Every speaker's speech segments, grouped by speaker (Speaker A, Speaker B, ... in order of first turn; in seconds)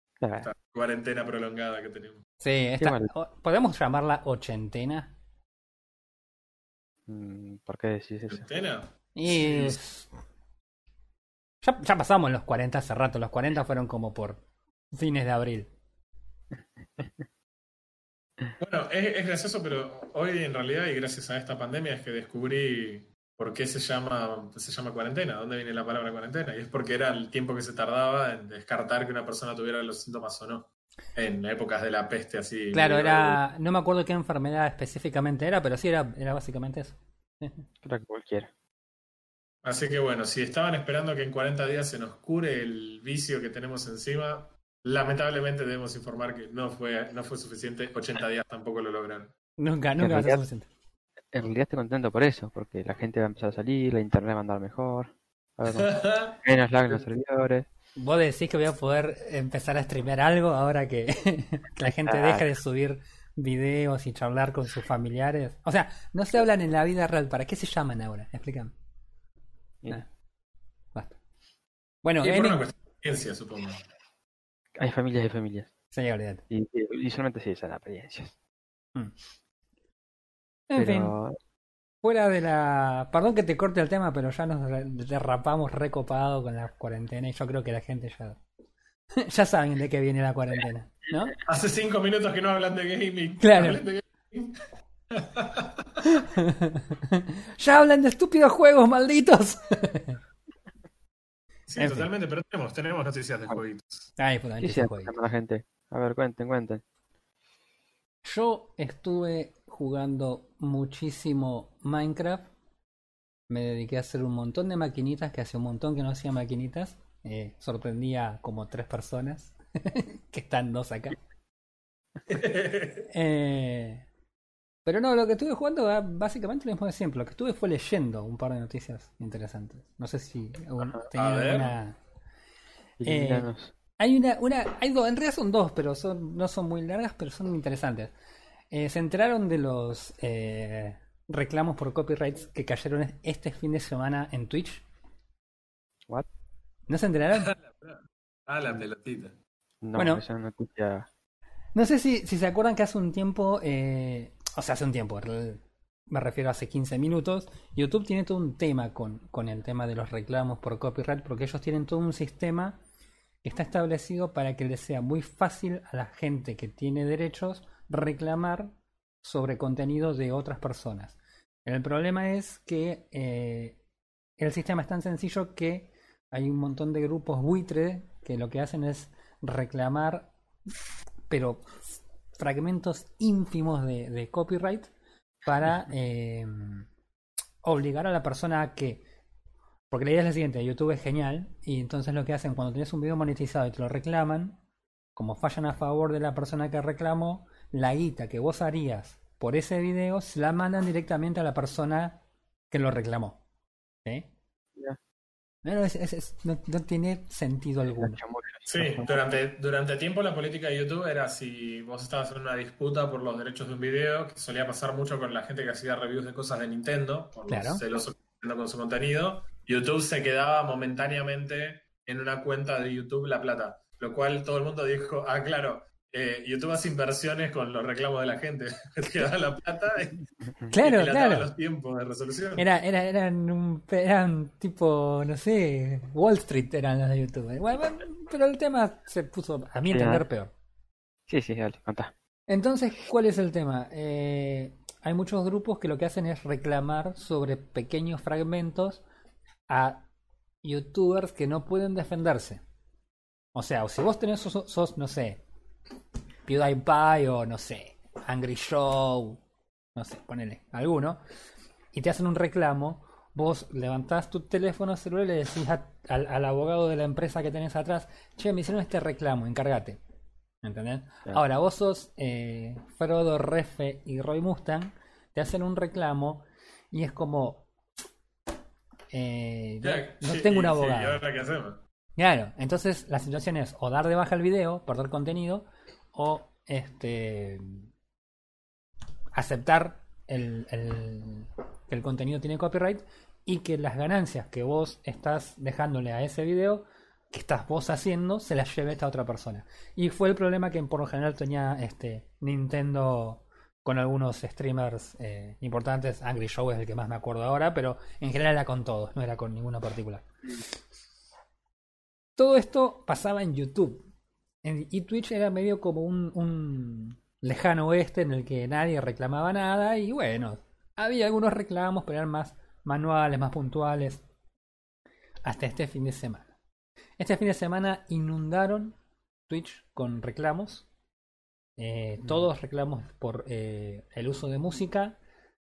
Speaker A: 0.2-0.5, 2.8-3.1, 7.1-8.4, 37.8-38.5, 50.0-50.4, 51.3-57.7, 61.8-62.5, 74.7-75.7, 76.5-78.3, 80.8-81.4, 104.6-106.8, 133.0-133.7, 149.8-151.1, 207.9-209.1, 239.9-240.2, 241.3-242.1
Speaker B: 0.4-2.2, 8.3-9.8, 18.6-33.4, 39.6-49.3, 55.7-56.4, 72.2-73.8, 91.4-96.1, 101.7-104.1, 122.3-123.1, 131.1-131.7, 147.3-149.4, 208.7-230.2, 230.7-232.7, 279.8-281.8
Speaker C: 2.4-5.1, 9.1-10.1, 11.6-15.7, 32.7-37.6, 49.6-50.7, 58.0-68.7, 72.0-72.6, 75.9-76.4, 80.7-81.1, 82.0-88.4, 89.2-91.3, 93.4-93.8, 96.0-100.2, 101.8-102.1, 104.2-105.1, 108.2-112.5, 113.5-121.2, 123.1-124.1, 124.8-132.0, 133.0-138.1, 138.7-144.8, 146.9-147.5, 149.9-150.2, 151.7-162.8, 163.4-173.8, 174.4-180.3, 181.3-184.9, 185.4-186.9, 187.6-189.0, 189.9-194.6, 195.2-203.4, 204.0-204.3, 205.6-208.2, 217.5-217.8, 230.7-231.5, 232.6-240.5, 242.5-249.0, 249.7-250.1, 250.6-252.6, 253.5-255.4, 256.4-259.4, 259.9-261.2, 261.9-270.0, 270.6-277.7, 279.1-281.2, 282.2-287.9, 289.3-310.6, 312.4-314.1, 314.6-324.2, 325.4-326.5, 327.2-328.9, 329.5-330.9, 331.8-335.2